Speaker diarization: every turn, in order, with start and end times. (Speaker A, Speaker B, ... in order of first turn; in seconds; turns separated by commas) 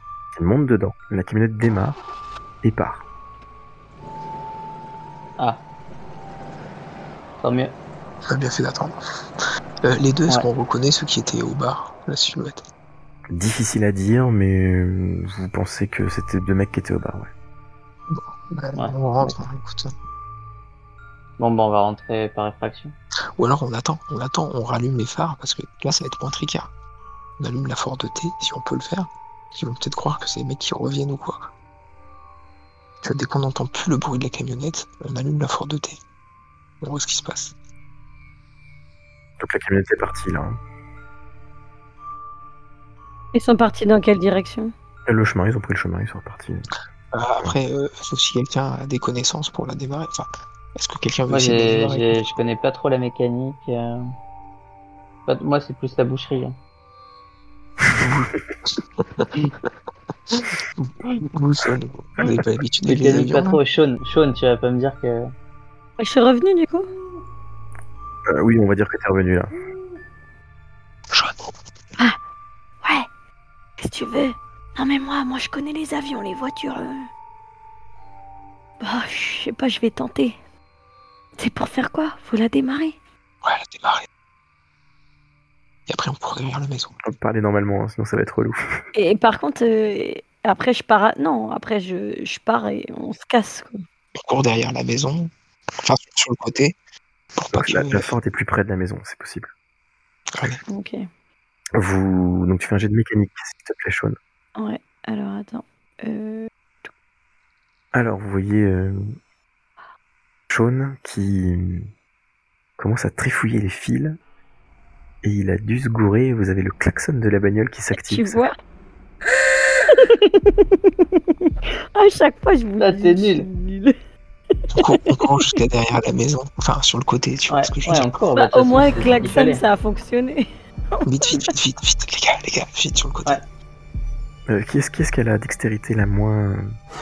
Speaker A: 0.3-2.0, Speaker A: 2.6-3.0, Speaker B: 5.4-5.6, Speaker B: 7.4-7.7, Speaker C: 8.3-9.0, Speaker C: 9.8-12.6, Speaker A: 13.3-17.3, Speaker C: 18.1-19.9, Speaker B: 18.8-19.4, Speaker B: 21.4-22.9, Speaker C: 23.4-26.7, Speaker C: 27.4-31.5, Speaker C: 33.0-36.0, Speaker C: 36.8-37.5, Speaker A: 39.4-40.6, Speaker D: 43.3-44.7, Speaker A: 45.1-46.7, Speaker C: 47.1-52.4, Speaker B: 51.3-54.0, Speaker B: 55.3-56.6, Speaker C: 57.9-59.5, Speaker C: 60.3-63.6, Speaker B: 62.9-65.3, Speaker D: 66.0-66.9, Speaker A: 68.3-69.5, Speaker D: 73.8-77.1, Speaker D: 78.8-80.4, Speaker D: 81.4-83.0, Speaker C: 83.4-84.1, Speaker C: 85.9-87.0, Speaker A: 87.0-88.6, Speaker D: 89.0-93.8, Speaker C: 94.2-96.8, Speaker C: 97.4-98.1, Speaker A: 97.5-99.5, Speaker C: 100.3-100.6, Speaker D: 100.7-101.0, Speaker A: 101.8-104.2, Speaker D: 104.6-106.9, Speaker A: 107.9-109.1, Speaker A: 110.5-111.9, Speaker A: 112.8-114.2, Speaker A: 115.2-118.4, Speaker D: 118.0-118.5, Speaker D: 119.9-124.0, Speaker B: 122.8-123.5, Speaker D: 124.6-125.2, Speaker C: 124.7-128.1, Speaker B: 127.5-129.6, Speaker D: 128.4-131.5, Speaker C: 131.1-133.4, Speaker A: 134.5-136.7